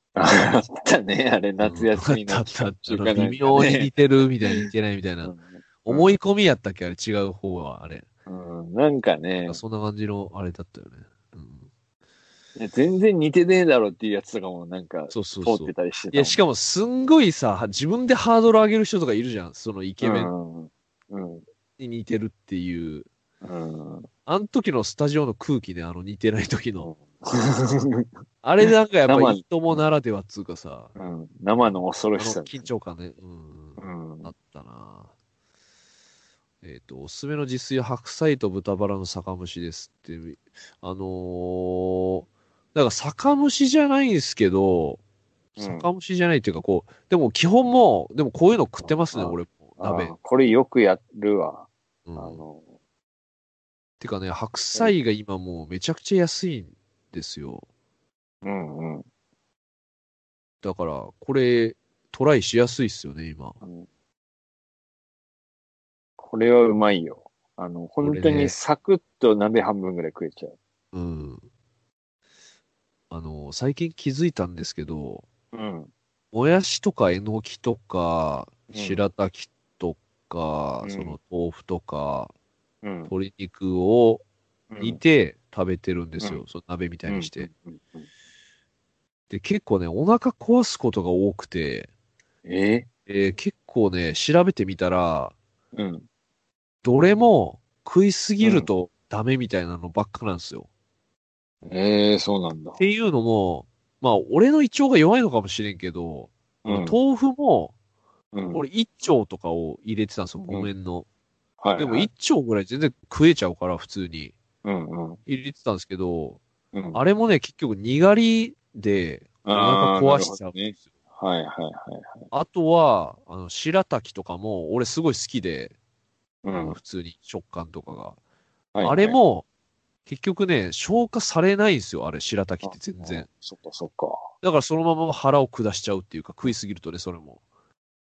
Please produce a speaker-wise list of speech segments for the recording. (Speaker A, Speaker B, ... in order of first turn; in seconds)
Speaker A: 0.2-3.9, 5.2-6.1, 8.3-9.6, 12.6-16.4, 20.0-21.4, 23.4-24.1, 26.8-28.1, 28.6-29.8, 31.0-32.7, 33.8-34.3, 45.6-45.9, 48.8-52.6, 58.4-59.0, 63.6-63.9, 66.2-70.6, 75.5-75.9, 78.7-79.0, 80.8-81.2, 82.8-83.1, 84.7-85.0, 87.1-88.1, 92.5-92.9, 95.7-96.1, 98.4-98.7, 101.7-102.8, 106.6-107.0, 108.3-108.6, 111.6-112.1, 114.6-115.2, 116.7-117.0, 119.5-122.3, 126.4-126.8, 128.7-129.2, 132.6-134.3
Speaker B: 1.6-5.3, 5.8-8.1, 9.5-11.7, 15.1-20.3, 21.8-23.1, 24.3-26.9, 28.4-30.9, 32.2-35.1, 36.6-45.0, 45.6-50.1, 52.1-52.4, 54.0-57.6, 60.6-63.6, 68.0-68.6, 70.9-71.5, 73.1-75.3, 76.3-82.3, 83.1-84.2, 84.8-87.5, 89.3-91.9, 93.1-95.3, 96.8-100.7, 102.8-107.7, 108.5-111.1, 111.8-114.4, 115.3-116.4, 116.9-120.6, 122.3-125.8, 126.6-128.2, 128.8-129.4, 130.1-133.3, 134.4-137.4